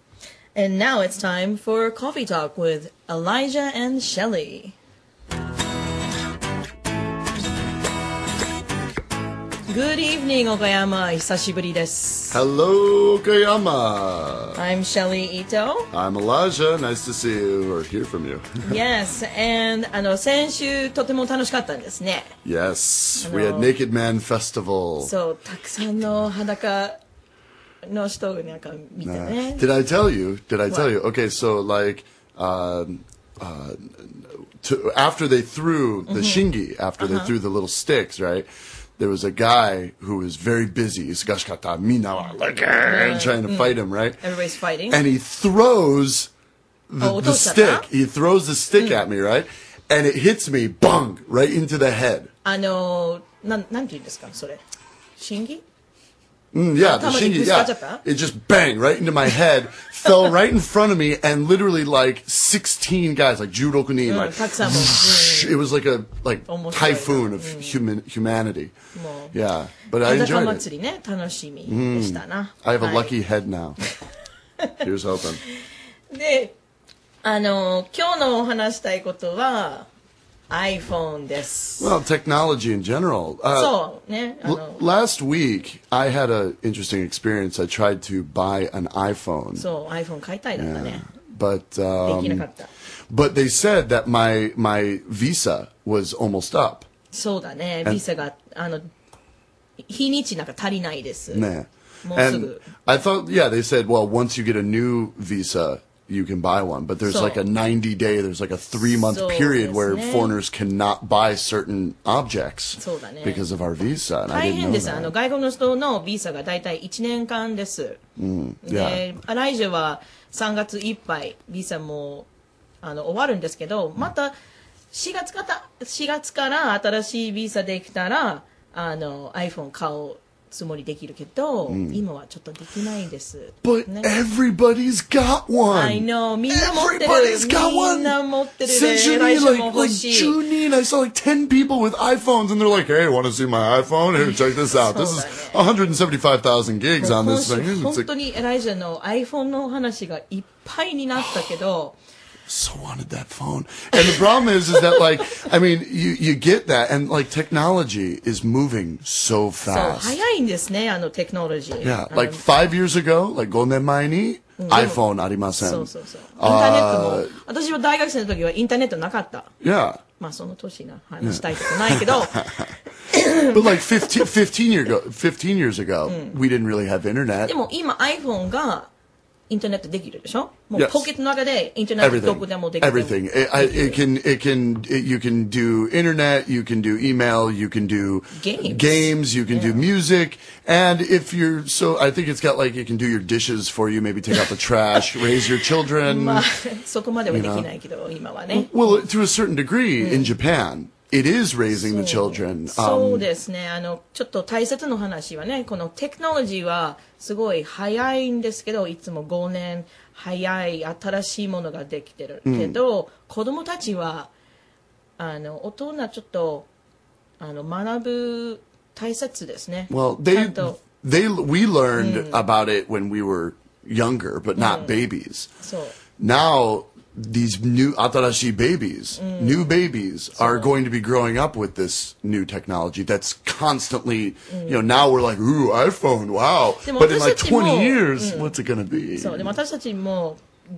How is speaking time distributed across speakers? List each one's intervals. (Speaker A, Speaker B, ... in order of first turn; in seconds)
Speaker A: 0.5-4.7, 9.7-12.4, 14.5-15.9, 18.6-22.3, 23.2-23.7, 25.0-27.0, 27.9-29.6, 36.1-36.5, 37.0-37.3, 42.8-45.0, 47.0-47.9, 52.4-54.6, 55.2-55.6, 56.8-58.0, 64.0-65.6, 66.4-67.8, 68.9-69.3, 70.0-73.1, 76.1-76.5, 77.2-79.9, 80.5-81.9, 83.5-84.8, 89.5-91.0, 92.0-92.7, 97.1-98.9, 99.9-101.5, 102.0-102.7, 107.0-107.4, 108.7-110.3, 112.8-113.4, 114.3-118.0, 118.6-122.3, 122.8-124.3, 124.9-134.1, 135.7-140.4, 144.2-145.6, 147.0-152.0, 154.7-155.0, 159.6-162.5, 164.6-169.5, 170.1-172.3, 173.1-173.7, 176.1-176.3, 177.4-178.9, 179.5-184.0, 188.3-189.8, 196.0-199.0, 200.0-200.3, 201.7-214.3, 215.2-216.7, 217.4-220.8, 222.0-222.4, 224.6-225.0, 225.6-226.0, 229.2-229.8, 230.3-230.8, 234.5-234.8, 236.8-238.6, 239.2-240.4
Speaker B: 12.3-14.6, 15.9-18.5, 22.4-25.1, 29.0-44.2, 44.9-46.3, 46.9-52.3, 56.5-68.8, 69.3-70.7, 71.7-73.8, 74.8-75.4, 81.8-83.8, 84.4-89.7, 90.6-92.5, 93.1-96.9, 101.3-115.1, 118.2-119.1, 131.7-132.0, 133.6-148.1, 151.2-151.5, 152.5-160.2, 161.8-167.4, 169.6-170.0, 171.2-172.7, 173.5-177.5, 180.7-181.1, 182.0-196.4, 197.3-197.7, 198.5-203.3, 212.4-212.8, 219.9-225.5, 226.0-239.6